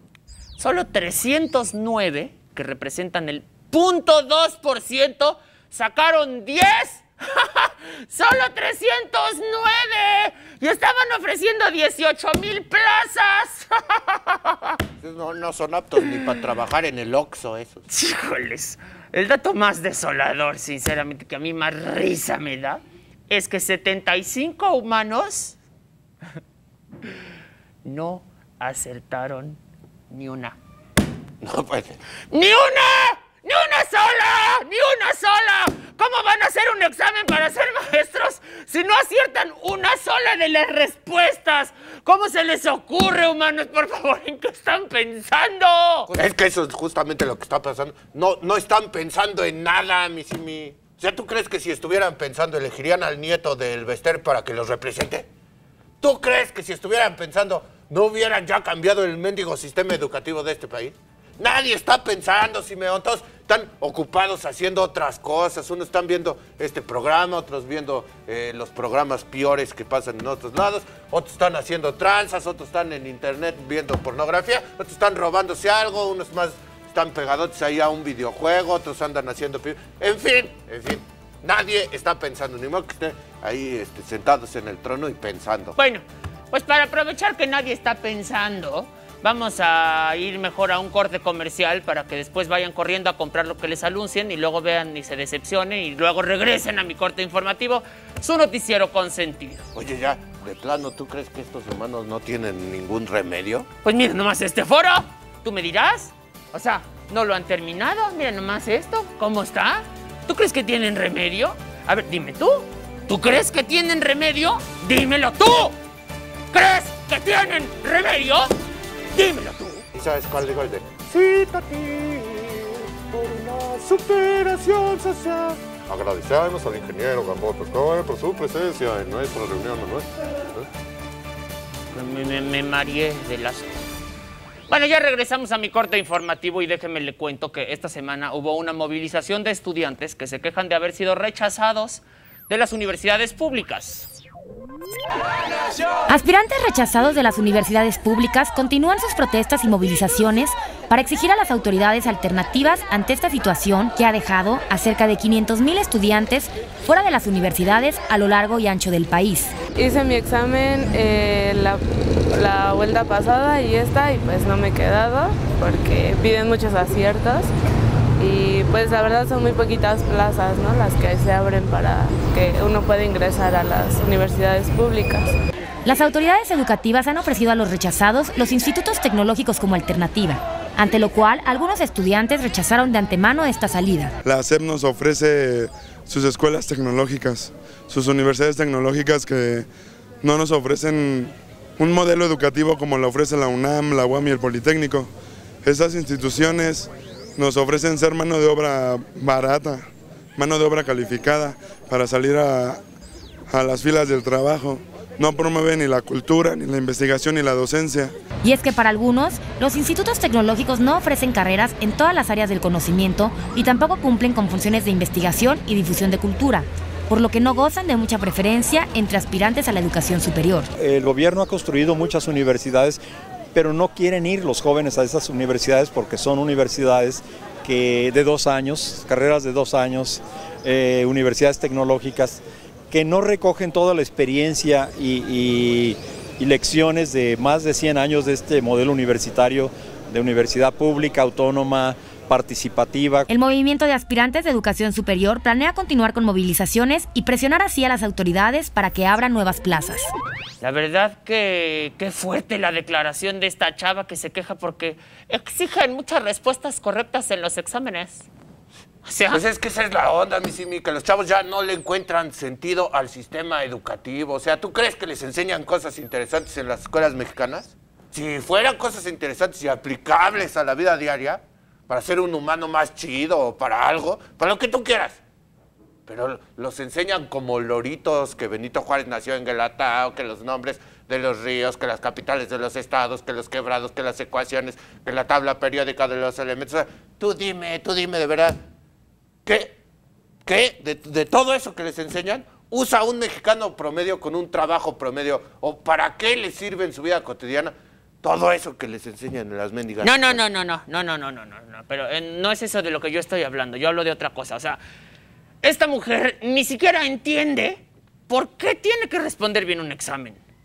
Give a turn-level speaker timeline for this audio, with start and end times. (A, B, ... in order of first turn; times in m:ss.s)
0:00.6-0:14.8 A
0:15.0-0:17.8 B
0:17.9-0:25.5 A
0:27.8-0:29.6 A
0:30.1-0:30.6 A
0:31.4-0:32.0 B
0:32.3-0:46.1 A
0:46.1-0:55.3 B
0:56.0-1:25.8 B
1:25.8-1:39.6 A
1:39.7-1:43.6 B
1:43.8-1:55.8 A
1:56.5-1:58.5 A
1:59.1-1:59.8 A
1:59.9-2:10.6 B
2:11.9-2:13.7 A
2:14.7-2:24.1 A
2:26.1-2:39.5 C
2:39.8-2:47.5 D
2:48.2-2:55.3 D
2:55.8-3:04.1 C
3:04.2-3:09.7 E
3:10.2-3:15.1 E
3:15.6-3:19.8 E
3:20.4-3:22.8 E
3:23.5-3:28.1 E
3:28.4-3:40.7 C
3:40.8-3:43.0 F
3:43.5-4:03.3 F
4:03.3-4:10.1 C
4:10.6-4:18.3 A
4:19.0-4:19.4 A
4:19.3-4:35.2 B
4:36.1-4:48.6 B
4:49.4-4:49.8 B
4:50.4-5:00.4 B
5:00.0-5:04.8 A
5:05.6-5:10.4 A